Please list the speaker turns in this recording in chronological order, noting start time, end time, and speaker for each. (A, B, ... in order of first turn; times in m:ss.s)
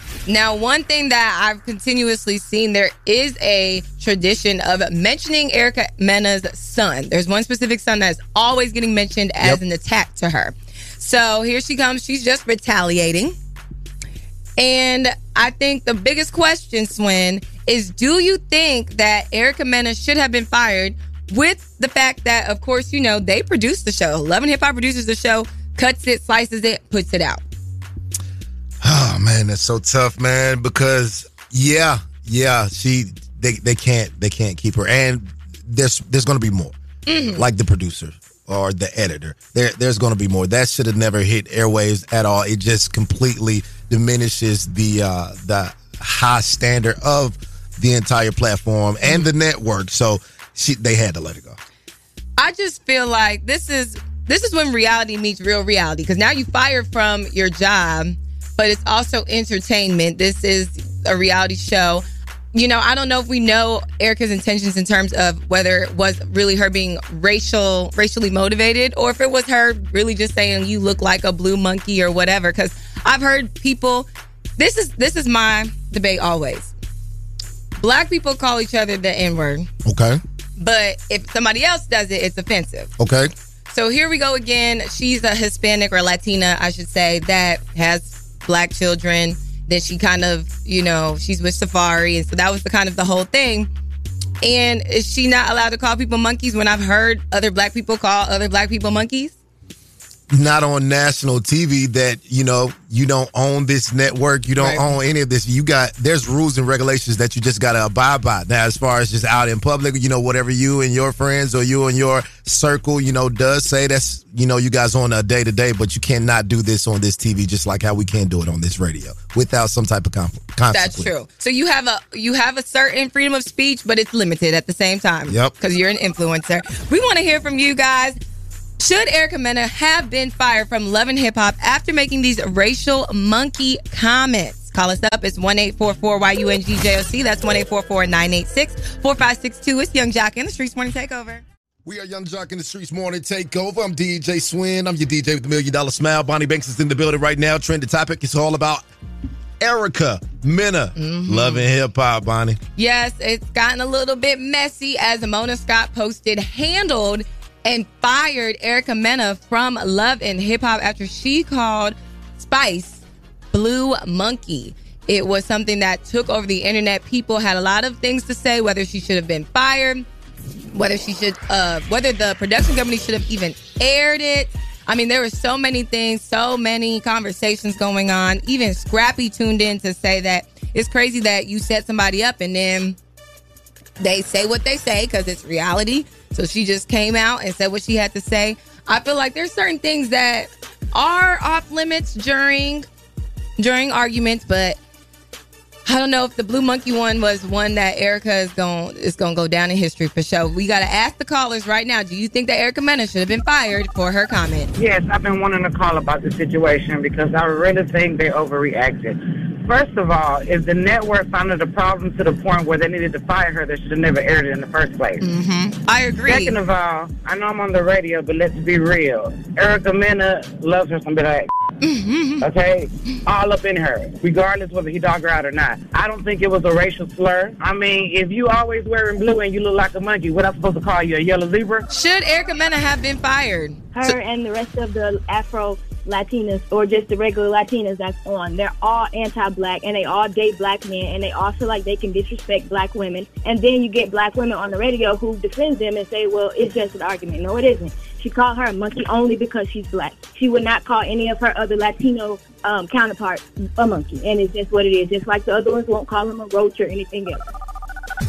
0:00.3-0:13.3 A
0:14.6-0:27.4 A
0:28.8-0:36.7 B
0:37.1-0:37.4 A
0:37.3-0:51.6 B
0:52.4-1:16.7 A
1:17.8-1:19.7 A
1:19.8-1:20.2 B
1:20.6-1:22.9 A
1:23.0-1:23.3 B
1:23.7-1:33.7 A
1:34.4-1:39.3 A
1:40.3-2:01.1 B
1:44.6-1:44.8 A
2:00.7-2:08.2 A
2:08.8-2:21.4 A
2:21.8-2:28.8 B
2:29.6-2:32.6 B
2:31.0-2:31.6 A
2:32.8-2:50.0 A
2:50.7-3:03.0 A
3:04.0-3:12.8 A
3:13.6-3:14.8 A
3:15.8-3:24.7 A
3:24.8-3:35.2 C
3:35.2-3:36.6 A
3:36.3-3:41.5 C
3:41.8-3:42.4 A
3:42.4-3:51.8 C
3:51.9-3:53.8 A
3:53.9-4:17.4 D